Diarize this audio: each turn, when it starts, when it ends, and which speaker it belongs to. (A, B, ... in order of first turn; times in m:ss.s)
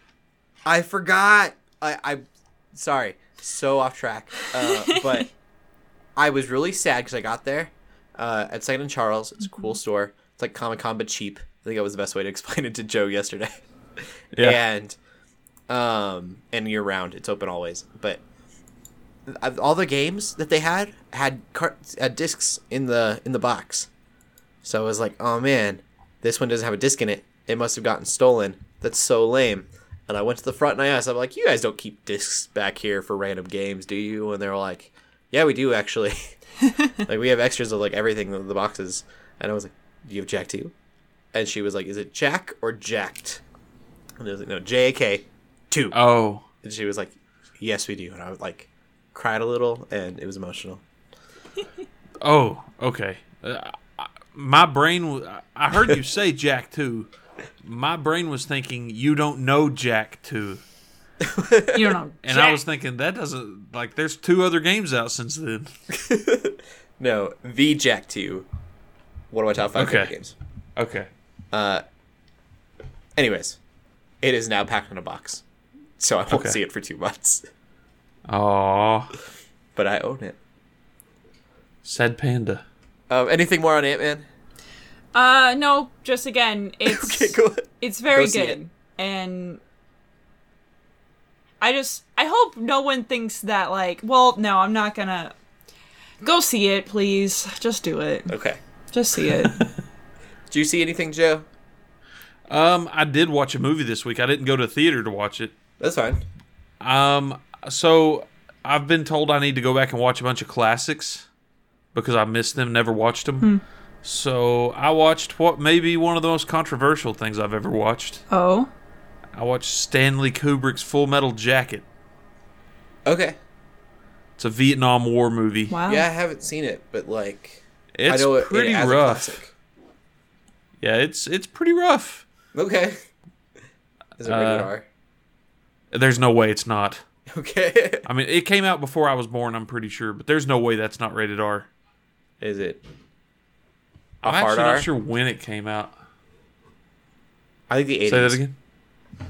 0:00.6-0:05.3 A
0:04.7-0:05.2 B
0:06.2-0:13.5 A
0:14.3-0:14.6 C
0:14.4-0:15.0 A
0:15.7-0:18.2 A
0:19.3-0:23.9 A
0:24.6-0:36.3 A
0:37.0-0:40.7 A
0:41.3-0:43.4 A
0:44.2-0:46.0 A
0:45.9-0:46.4 C
0:46.6-0:50.8 A
0:52.2-0:57.1 C
0:57.6-1:00.6 C
1:01.2-1:02.0 A
1:01.7-1:02.6 B
1:02.2-1:05.7 C
1:05.9-1:08.4 A
1:09.3-1:10.3 A
1:09.8-1:10.1 C
1:10.8-1:11.1 C
1:11.5-1:11.8 A
1:13.2-1:13.6 A
1:14.2-1:15.4 A
1:16.0-1:17.4 A
1:16.3-1:16.6 C
1:18.3-1:19.1 C
1:19.8-1:20.4 A
1:21.8-1:22.6 C
1:23.1-1:24.2 A
1:25.1-1:29.6 B
1:26.8-1:28.6 A
1:31.6-1:35.3 B
1:36.2-1:38.3 B
1:38.3-1:38.6 A
1:38.9-1:39.7 B
1:40.5-1:41.4 A
1:42.5-1:45.5 C
1:45.8-1:46.2 A
1:46.8-1:51.3 C
1:51.9-1:53.5 C
1:54.0-1:58.2 C
1:58.3-1:58.7 B
1:59.3-2:01.8 C
2:03.0-2:03.4 A
2:04.4-2:05.8 C
2:05.7-2:06.1 B
2:05.9-2:09.5 A
2:07.9-2:09.4 C
2:10.8-2:12.2 C
2:12.5-2:13.0 A
2:14.2-2:14.8 A
2:14.2-2:14.7 C
2:15.9-2:17.0 C
2:17.3-2:18.0 A
2:18.0-2:21.7 C
2:22.4-2:22.8 A
2:24.2-2:25.9 C
2:24.2-2:24.9 A
2:27.7-2:28.4 A
2:28.1-2:28.5 C